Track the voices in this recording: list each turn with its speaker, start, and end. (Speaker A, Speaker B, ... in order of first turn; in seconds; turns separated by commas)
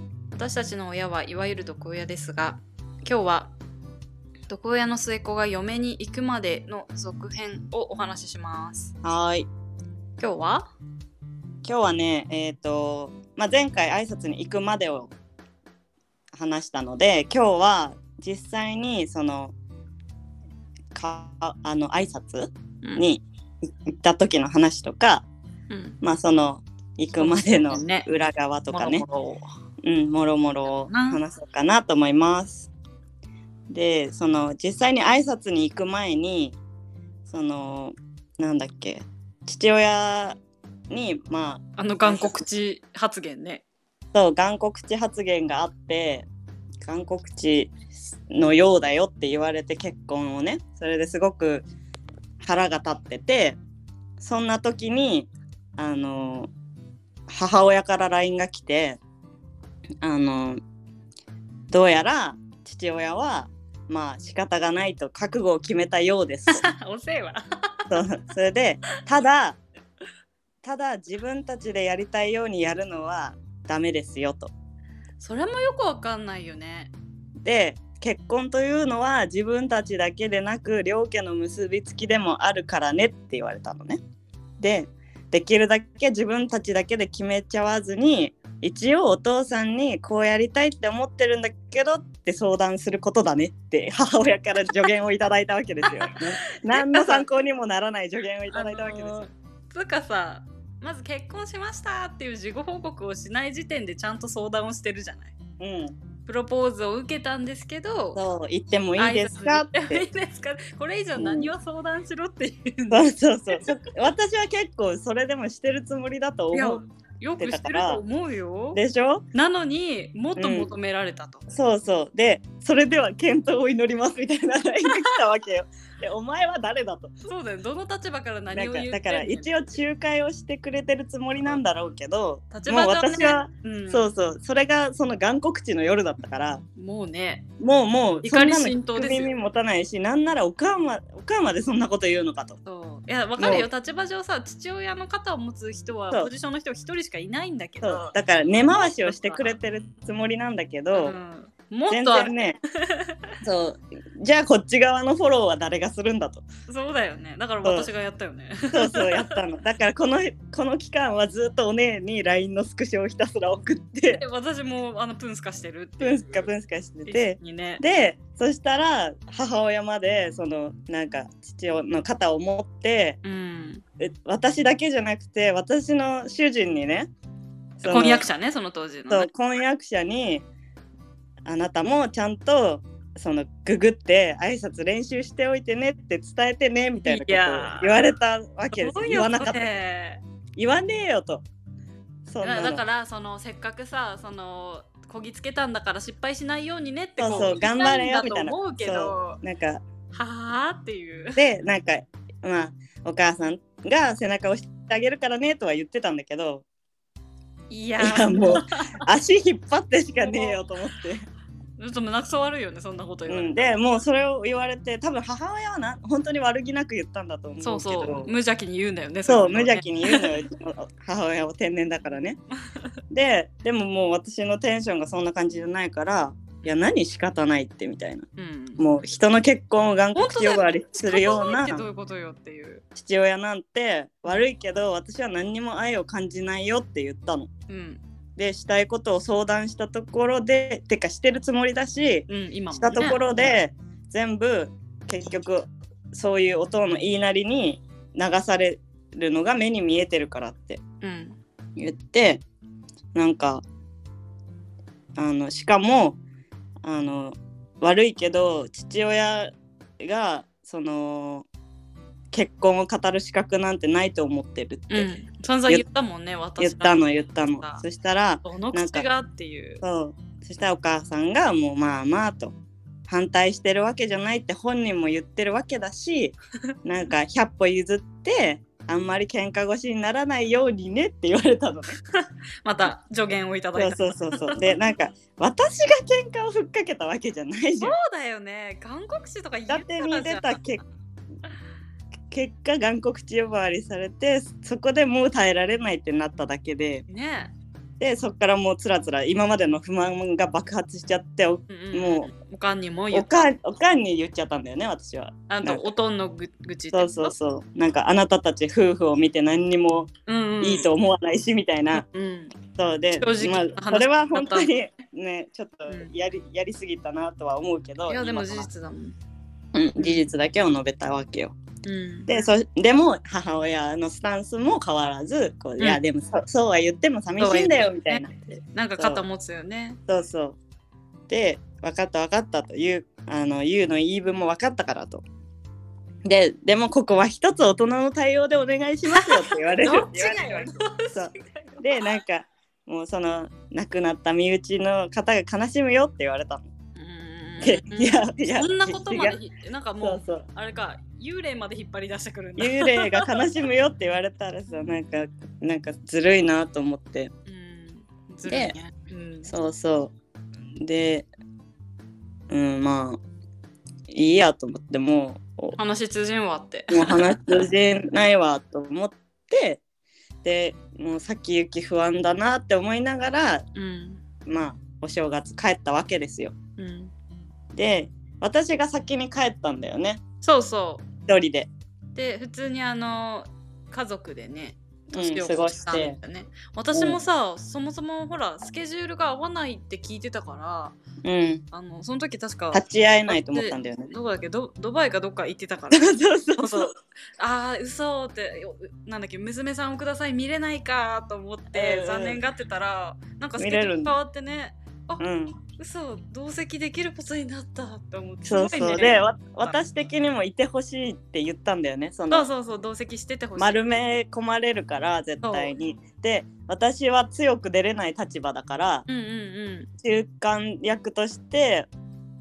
Speaker A: 0.3-3.5, Speaker A: 4.5-8.9, Speaker B: 9.0-9.5, Speaker A: 10.2-10.7, Speaker B: 11.6-15.1, Speaker B: 16.3-19.5, Speaker B: 20.9-23.2, Speaker B: 23.9-25.2, Speaker A: 25.7-26.0, Speaker B: 26.0-29.0, Speaker A: 27.1-28.1, Speaker A: 28.7-29.4, Speaker B: 29.8-32.7, Speaker A: 30.7-31.2, Speaker B: 33.7-36.6, Speaker B: 37.3-40.4, Speaker B: 40.9-42.4, Speaker A: 41.8-43.6, Speaker B: 44.1-46.3, Speaker B: 46.8-51.7, Speaker B: 52.4-53.6, Speaker B: 54.2-56.5, Speaker B: 57.3-59.0, Speaker B: 60.0-60.6, Speaker B: 61.7-66.7, Speaker A: 66.5-67.9, Speaker B: 67.9-69.6, Speaker B: 70.6-74.5, Speaker A: 75.2-76.9, Speaker B: 77.4-84.0, Speaker B: 84.6-99.3, Speaker A: 95.8-97.2, Speaker A: 98.5-105.3, Speaker B: 105.6-105.9, Speaker A: 106.2-108.2, Speaker B: 108.1-110.0, Speaker A: 109.0-113.6, Speaker B: 111.2-111.5, Speaker B: 112.9-116.8, Speaker A: 116.5-118.8, Speaker B: 117.4-118.0, Speaker B: 118.7-119.2, Speaker A: 119.3-121.4, Speaker B: 120.4-120.7, Speaker B: 121.5-127.2, Speaker A: 127.3-129.7, Speaker B: 128.5-136.6, Speaker A: 132.5-134.1, Speaker A: 136.8-137.4, Speaker B: 137.6-142.6, Speaker A: 138.2-139.3, Speaker A: 142.6-149.6, Speaker B: 143.4-143.7, Speaker B: 147.8-151.2, Speaker A: 150.9-153.2, Speaker B: 151.9-152.6, Speaker B: 153.4-156.4, Speaker A: 156.7-159.3, Speaker B: 157.6-157.9, Speaker B: 158.7-164.2, Speaker A: 164.1-166.5, Speaker B: 166.0-173.2, Speaker A: 167.1-167.8, Speaker A: 173.2-173.8, Speaker B: 174.0-177.1, Speaker B: 177.8-178.2, Speaker A: 177.8-179.3, Speaker B: 179.1-180.4, Speaker B: 181.4-189.8, Speaker A: 187.0-188.0, Speaker A: 188.7-190.2, Speaker B: 190.6-191.4, Speaker B: 192.3-192.8, Speaker A: 192.4-199.4, Speaker B: 197.2-199.8, Speaker A: 200.1-201.4, Speaker B: 201.3-206.6, Speaker A: 207.7-209.0, Speaker B: 208.0-211.2, Speaker A: 210.2-210.6, Speaker A: 211.8-213.7, Speaker B: 213.3-218.3, Speaker A: 217.6-220.4, Speaker B: 219.3-222.4, Speaker B: 223.1-228.3, Speaker A: 228.4-228.8, Speaker B: 228.8-231.8, Speaker A: 230.1-232.8, Speaker B: 232.9-237.5, Speaker A: 237.7-238.0, Speaker B: 238.4-250.8, Speaker A: 242.3-243.5, Speaker A: 251.0-251.4, Speaker B: 251.8-252.4, Speaker B: 253.1-253.6, Speaker B: 255.2-256.2, Speaker B: 256.8-261.5, Speaker B: 262.3-265.1, Speaker A: 264.9-267.8, Speaker B: 266.6-269.1, Speaker A: 268.4-269.8, Speaker B: 269.8-272.6, Speaker B: 273.1-282.0, Speaker A: 282.2-284.8, Speaker B: 283.8-288.0, Speaker A: 287.8-290.6, Speaker B: 289.7-290.8, Speaker B: 292.3-297.0, Speaker A: 297.1-297.5, Speaker B: 298.0-302.3, Speaker A: 301.7-303.5, Speaker B: 303.1-305.9, Speaker A: 305.5-307.3, Speaker B: 306.9-312.0, Speaker A: 310.3-310.9, Speaker A: 311.9-312.5, Speaker B: 312.8-318.7, Speaker A: 313.1-314.7, Speaker A: 315.9-316.1, Speaker A: 318.1-319.1, Speaker B: 319.7-321.6, Speaker A: 320.0-320.3, Speaker A: 321.8-322.4, Speaker B: 322.3-329.2, Speaker A: 327.4-330.0, Speaker B: 330.1-330.6, Speaker B: 331.3-335.2, Speaker B: 336.2-346.7, Speaker A: 339.1-342.0, Speaker A: 346.9-353.3, Speaker B: 347.6-349.4, Speaker B: 350.0-350.4, Speaker B: 352.6-357.3, Speaker A: 357.5-359.5, Speaker B: 358.4-358.8, Speaker B: 359.4-360.1, Speaker B: 360.8-361.3, Speaker B: 362.5-363.2, Speaker B: 364.1-365.8, Speaker A: 365.8-367.6, Speaker B: 366.9-369.8, Speaker B: 370.4-373.6, Speaker A: 373.7-374.2, Speaker B: 374.4-376.6, Speaker A: 376.8-377.1, Speaker B: 377.7-380.2, Speaker A: 380.4-381.1, Speaker B: 381.3-381.7, Speaker A: 382.1-390.9, Speaker B: 385.1-386.2, Speaker B: 386.9-387.2, Speaker B: 391.2-391.6, Speaker A: 391.7-405.2, Speaker B: 392.7-394.1, Speaker B: 395.9-396.9, Speaker B: 401.7-402.4, Speaker B: 403.6-404.1, Speaker B: 405.2-405.6, Speaker A: 405.8-409.8, Speaker B: 408.4-412.5, Speaker A: 412.3-414.0, Speaker B: 413.6-419.1, Speaker A: 415.4-415.7, Speaker A: 419.1-419.9, Speaker B: 420.0-421.9